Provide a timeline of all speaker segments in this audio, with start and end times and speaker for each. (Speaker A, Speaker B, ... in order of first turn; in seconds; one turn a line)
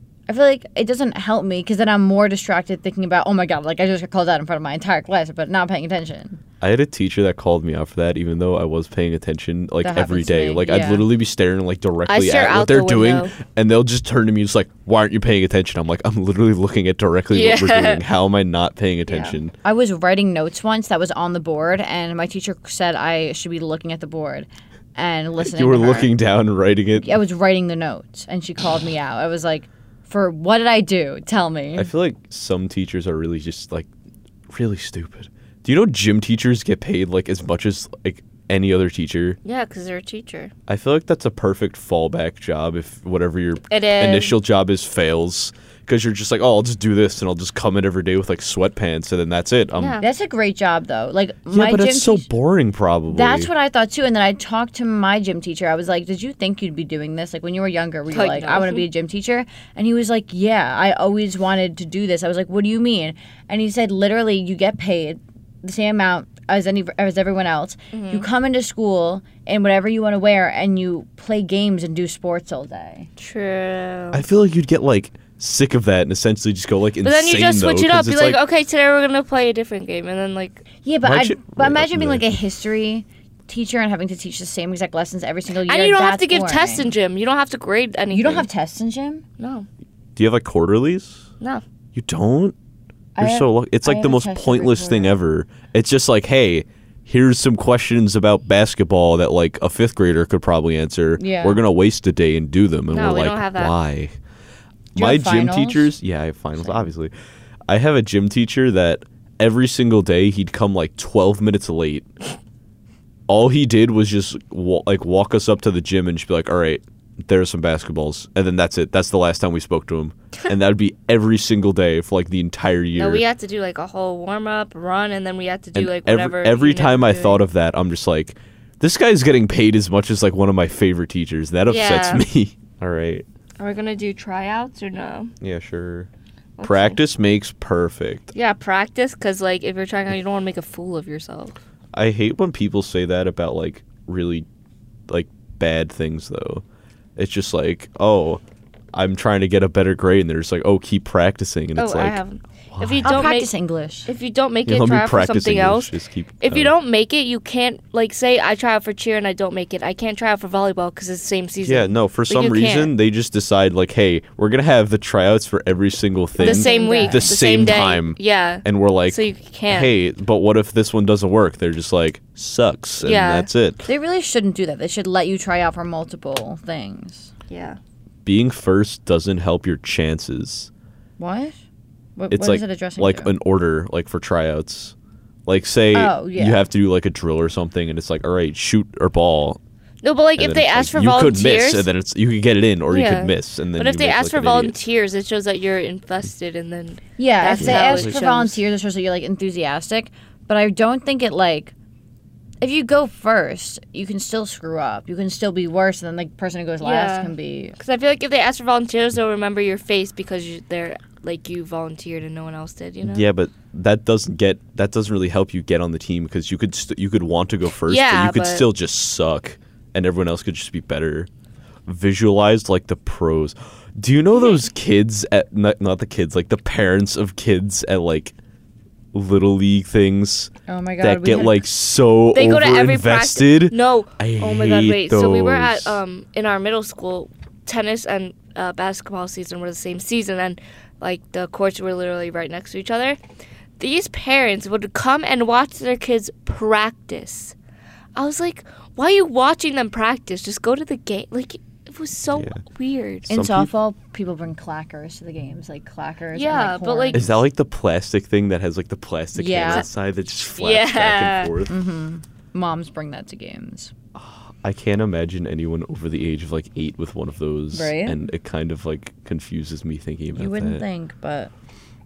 Speaker A: 0.3-6.4
Speaker B: 6.6-19.5
Speaker A: 9.8-11.1
Speaker C: 12.1-13.3
Speaker C: 17.3-18.0
Speaker C: 19.1-19.4
Speaker A: 19.6-26.1
Speaker B: 25.4-27.2
Speaker A: 27.0-31.9
Speaker B: 31.8-33.9
Speaker B: 34.5-39.4
Speaker C: 39.5-40.5
Speaker B: 40.7-50.0
Speaker C: 43.7-44.4
Speaker C: 49.8-50.0
Speaker A: 50.0-52.3
Speaker B: 51.5-53.5
Speaker A: 53.1-73.1
Speaker C: 58.1-58.9
Speaker C: 67.9-68.3
Speaker C: 73.2-74.2
Speaker B: 74.1-78.4
Speaker C: 77.0-80.6
Speaker A: 80.8-86.9
Speaker B: 81.0-82.3
Speaker C: 85.5-88.5
Speaker A: 88.1-89.2
Speaker C: 89.4-89.7
Speaker B: 90.2-91.2
Speaker B: 92.0-92.5
Speaker A: 93.2-95.2
Speaker B: 93.2-104.2
Speaker A: 101.2-101.6
Speaker C: 102.9-103.7
Speaker A: 105.0-105.9
Speaker B: 105.0-107.1
Speaker B: 107.7-112.1
Speaker B: 113.3-123.2
Speaker C: 123.0-127.4
Speaker B: 125.8-133.3
Speaker C: 131.7-132.2
Speaker C: 133.6-135.3
Speaker B: 135.4-136.1
Speaker C: 136.6-137.0
Speaker B: 136.6-138.3
Speaker C: 138.3-141.6
Speaker B: 141.9-144.5
Speaker B: 145.1-146.6
Speaker B: 147.2-148.4
Speaker B: 148.9-152.2
Speaker C: 151.8-153.5
Speaker B: 152.7-153.3
Speaker A: 153.0-154.1
Speaker C: 154.1-162.9
Speaker B: 154.7-156.7
Speaker B: 161.6-173.8
Speaker A: 166.4-167.3
Speaker C: 166.4-169.9
Speaker C: 173.0-173.5
Speaker A: 173.9-177.3
Speaker C: 177.5-177.8
Speaker B: 178.2-180.7
Speaker A: 181.2-181.6
Speaker A: 182.2-183.3
Speaker B: 182.3-184.9
Speaker B: 185.5-189.6
Speaker A: 185.9-186.6
Speaker C: 190.0-191.9
Speaker B: 190.4-194.8
Speaker C: 192.9-198.6
Speaker A: 197.2-201.7
Speaker B: 197.6-198.2
Speaker A: 202.6-207.8
Speaker C: 206.8-213.3
Speaker B: 213.0-221.3
Speaker C: 217.9-218.7
Speaker B: 221.9-228.3
Speaker B: 229.1-236.0
Speaker A: 230.7-231.6
Speaker C: 232.3-243.2
Speaker C: 243.8-247.6
Speaker C: 248.2-253.3
Speaker B: 252.3-252.6
Speaker B: 253.3-253.7
Speaker A: 253.3-257.3
Speaker C: 256.3-257.2
Speaker B: 257.1-261.8
Speaker A: 259.4-259.9
Speaker C: 260.6-261.5
Speaker A: 261.7-263.9
Speaker B: 264.1-270.8
Speaker A: 267.7-268.2
Speaker A: 270.4-271.5